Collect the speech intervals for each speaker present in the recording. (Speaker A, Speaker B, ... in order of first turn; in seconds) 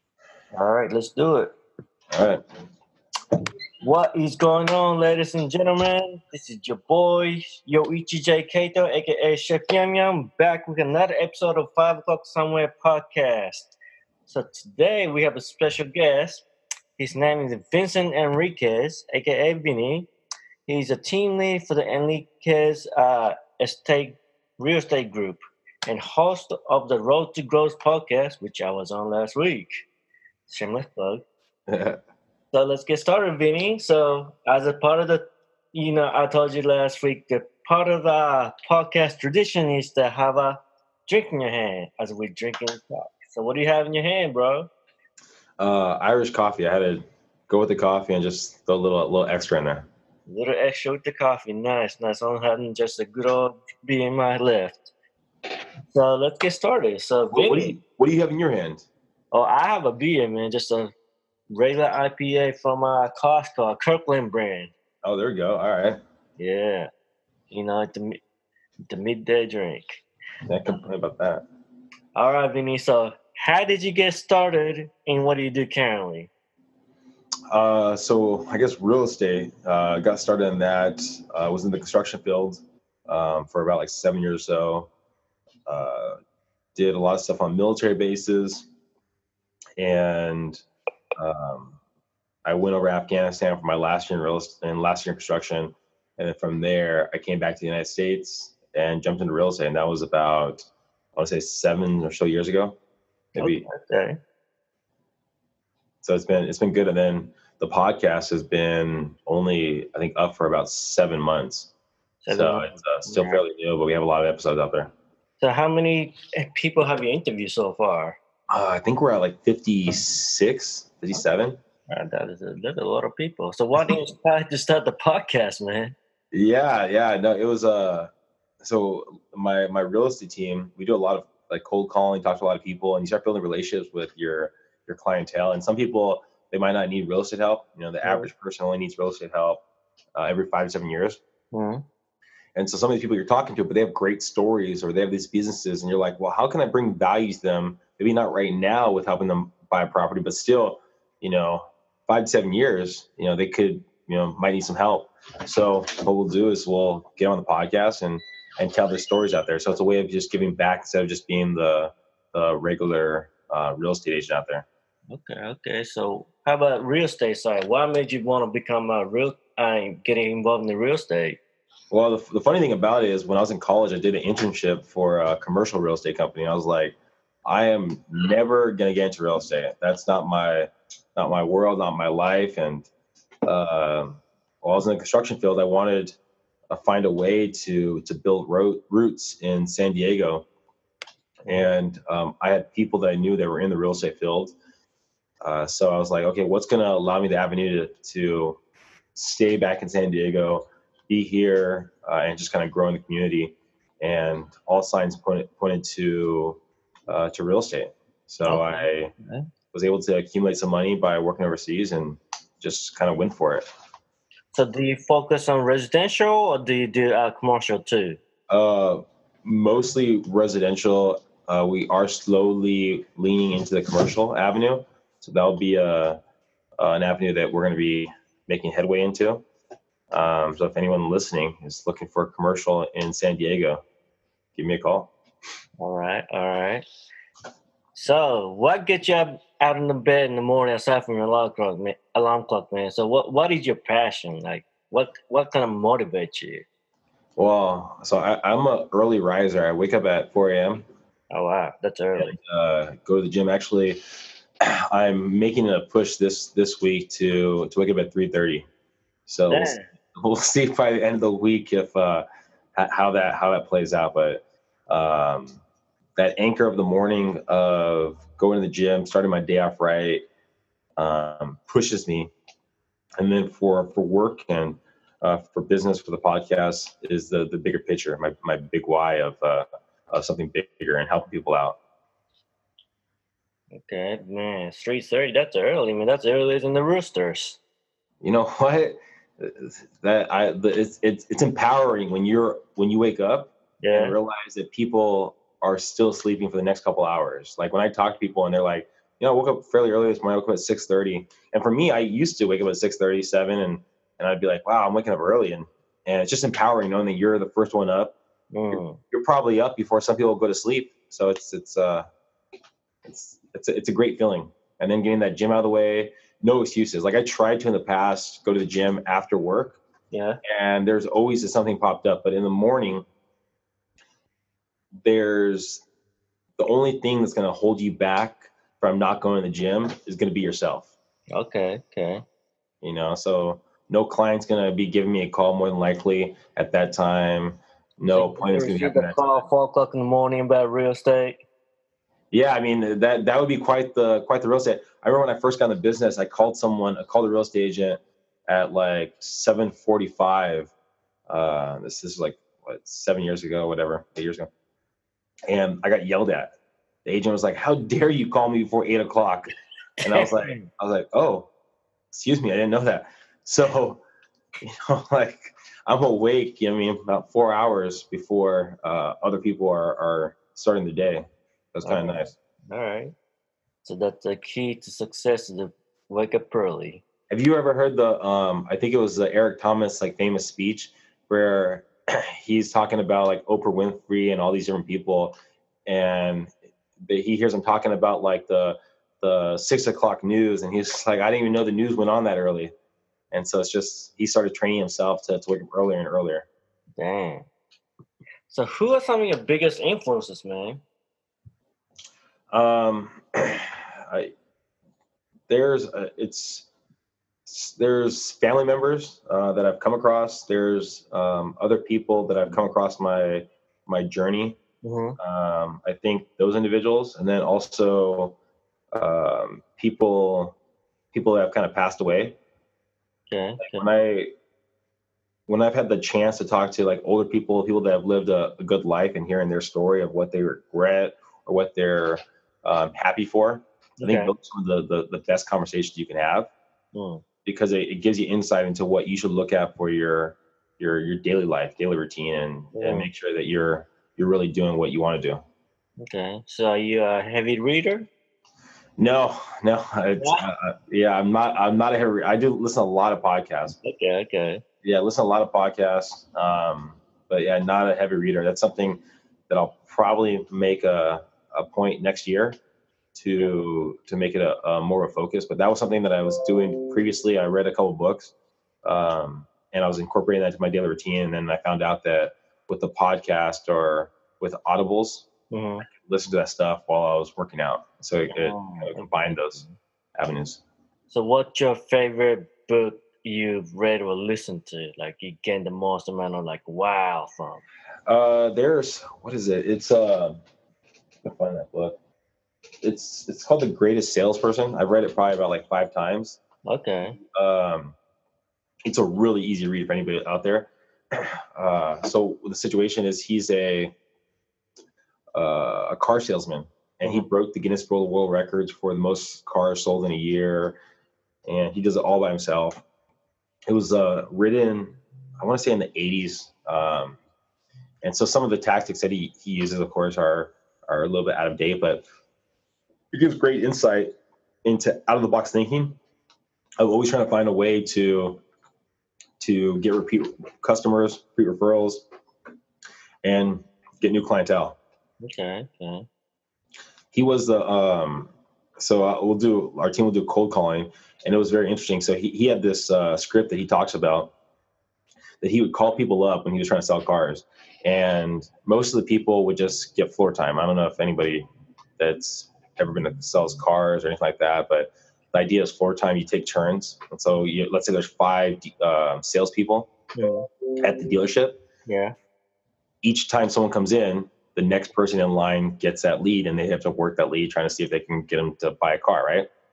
Speaker A: 0.5-1.5, 3.8-13.7, 14.3-16.4, 17.0-20.1, 20.7-29.9, 30.5-31.2, 32.5-44.7, 50.3-54.9, 55.9-57.8, 59.3-60.9, 61.5-64.7, 66.4-66.9, 67.5-68.2, 68.9-70.0, 72.2-76.3, 103.3-104.2, 112.2-113.4, 115.4-118.2, 121.9-126.0, 138.0-138.3, 141.5-141.8, 165.1-171.4, 208.5-209.5, 214.5-218.2, 235.8-236.9, 237.9-246.7, 251.3-252.4, 259.5-259.9, 283.7-287.6, 293.8-294.2, 308.5-309.0, 320.1-320.4, 331.3-332.2, 338.1-341.4, 360.0-360.7, 371.8-373.1, 373.8-377.0, 397.0-397.4, 398.5-400.8, 414.8-415.2, 423.3-423.9, 434.0-434.3, 436.9-437.2, 442.7-443.1, 446.0-448.1, 450.2-450.5, 453.8-454.6, 475.5-475.9, 478.3-479.8, 481.1-487.6, 496.6-497.2, 535.2-536.1, 560.1-560.5, 561.9-562.1
Speaker B: 2.1-2.4, 31.7-32.0, 45.6-49.9, 57.3-58.9, 65.0-66.0, 70.5-71.4, 77.5-84.9, 85.7-86.2, 86.7-88.7, 89.8-90.6, 91.2-91.8, 92.4-102.8, 103.3-103.7, 106.0-111.7, 112.3-114.9, 118.5-121.6, 126.3-139.6, 140.2-141.2, 142.6-164.7, 171.9-182.9, 183.4-186.2, 186.7-190.5, 191.5-194.5, 195.4-198.6, 199.2-209.1, 209.7-213.7, 218.5-226.2, 226.8-229.5, 230.1-233.8, 234.6-235.1, 247.4-250.8, 252.2-254.0, 254.6-258.7, 259.3-262.2, 262.8-265.6, 266.2-270.2, 271.0-272.3, 273.2-281.8, 288.2-308.1, 308.7-312.1, 313.1-319.8, 320.4-323.1, 325.0-325.8, 326.6-330.9, 332.8-339.4, 342.3-350.7, 351.3-354.5, 355.5-356.5, 357.1-361.5, 362.1-364.0, 364.6-372.3, 377.3-385.4, 385.9-392.7, 393.3-396.4, 402.5-404.3, 405.5-406.7, 407.4-414.6, 415.2-418.4, 418.9-420.6, 421.1-422.4, 423.6-424.3, 425.5-436.5, 437.4-445.4, 449.0-453.8, 454.8-462.6, 463.1-468.3, 468.8-475.3, 475.9-479.6, 480.1-480.6, 488.1-490.4, 491.2-492.0, 492.8-496.4, 497.3-497.9, 498.9-503.9, 505.4-510.8, 511.5-512.8, 513.7-517.2, 518.0-522.0, 523.1-524.1, 524.6-526.0, 526.8-528.4, 529.4-532.1, 533.2-534.8, 537.1-544.3, 545.4-551.5, 552.0-559.9, 560.8-561.6, 563.0-569.5